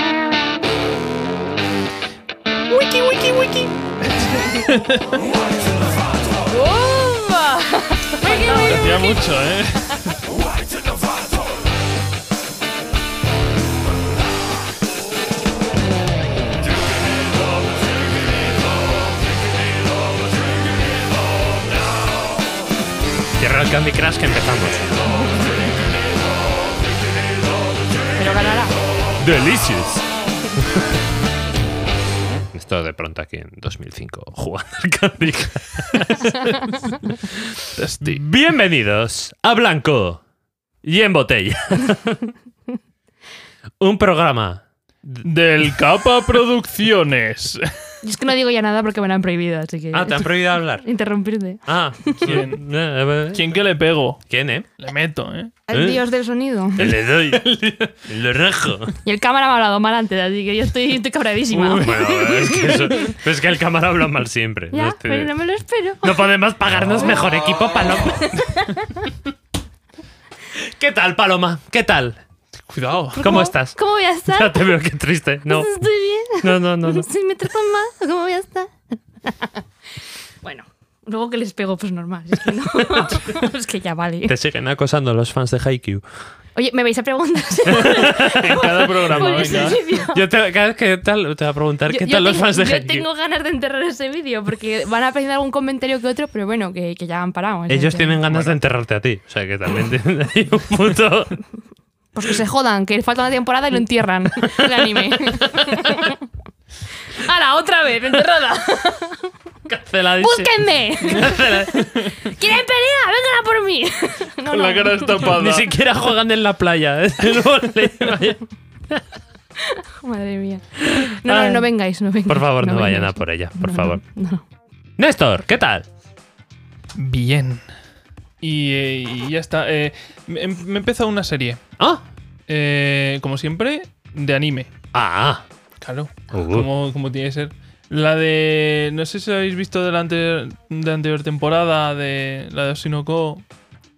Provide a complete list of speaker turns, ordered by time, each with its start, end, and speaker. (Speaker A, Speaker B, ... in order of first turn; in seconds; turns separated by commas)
Speaker A: 2.8-3.7, Speaker B: 4.1-5.2, Speaker A: 6.5-9.3, Speaker B: 8.2-10.2, Speaker C: 23.4-25.1, Speaker A: 25.1-25.6, Speaker A: 28.1-28.7, Speaker C: 29.2-30.1, Speaker C: 32.5-40.2, Speaker B: 37.7-38.2, Speaker C: 40.8-42.3, Speaker C: 43.8-45.2, Speaker B: 45.2-47.7, Speaker A: 48.0-52.4, Speaker C: 49.9-50.9, Speaker C: 51.7-53.6, Speaker B: 52.2-52.6, Speaker B: 53.3-54.2, Speaker C: 54.3-54.7, Speaker B: 54.8-55.5, Speaker A: 55.7-56.9, Speaker C: 55.7-56.0, Speaker C: 56.8-59.0, Speaker A: 59.0-63.2, Speaker C: 61.5-65.3, Speaker A: 64.7-66.3, Speaker C: 66.0-68.6, Speaker A: 68.1-69.1, Speaker C: 70.5-72.2, Speaker B: 72.7-73.3, Speaker A: 73.2-74.8, Speaker C: 73.2-75.7, Speaker A: 75.5-79.6, Speaker C: 76.4-77.1, Speaker A: 80.4-84.3, Speaker C: 82.8-83.2, Speaker C: 84.3-86.0, Speaker A: 86.5-90.3, Speaker C: 87.7-93.0, Speaker B: 87.8-89.8, Speaker A: 91.9-98.2, Speaker C: 97.7-101.4, Speaker B: 98.3-98.5, Speaker A: 102.1-106.2, Speaker C: 104.4-106.1, Speaker A: 107.1-109.3, Speaker C: 109.7-112.0, Speaker A: 110.2-115.3, Speaker B: 114.5-115.8, Speaker C: 115.2-119.0, Speaker A: 119.6-124.4, Speaker C: 120.8-121.7, Speaker C: 122.3-124.0, Speaker C: 125.0-125.9, Speaker B: 127.0-127.7, Speaker B: 128.4-131.6, Speaker B: 132.5-134.7, Speaker C: 134.9-135.4, Speaker B: 135.8-143.4, Speaker C: 136.3-136.7